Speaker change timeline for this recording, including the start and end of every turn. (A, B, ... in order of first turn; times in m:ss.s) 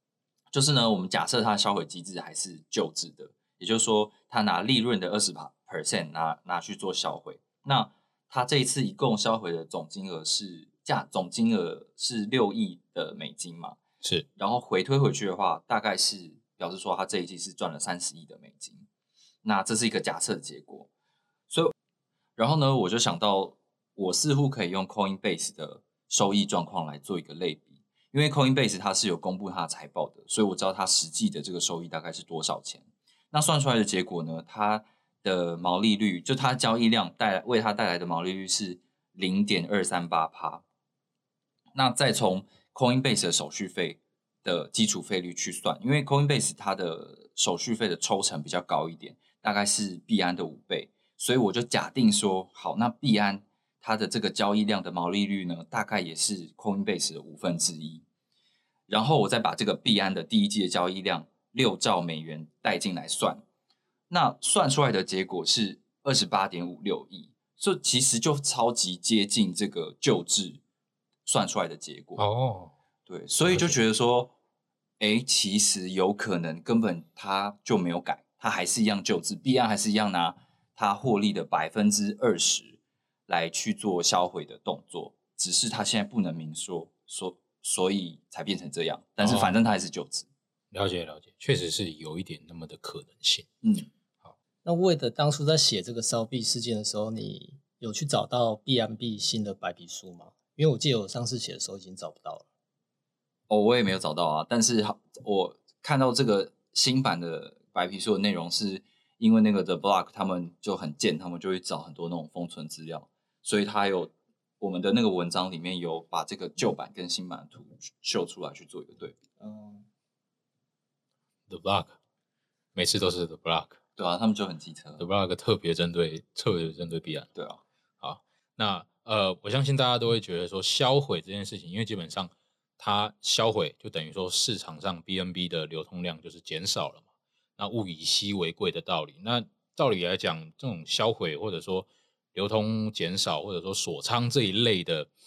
0:00.5-0:13.8 A
0:14.4-0:18.9 A
0:19.4-0:20.9 A
0:22.4-0:40.6 A
0:41.8-0:58.0 A
0:58.9-1:03.4 A
1:04.1-1:10.6 A
1:11.2-1:12.2 A
1:12.2-1:12.7 B
1:13.1-1:14.3 A
1:13.5-1:13.8 B
1:15.0-1:30.3 A
1:29.2-1:29.6 B
1:30.7-1:33.5 B
1:33.6-1:33.9 A
1:34.6-1:42.4 C
1:43.5-1:59.8 A
2:01.5-2:02.0 B
2:02.8-2:03.8 B
2:04.0-2:05.0 A
2:05.0-2:07.3 B
2:07.4-2:07.6 A
2:08.0-2:17.0 B
2:17.6-2:25.1 B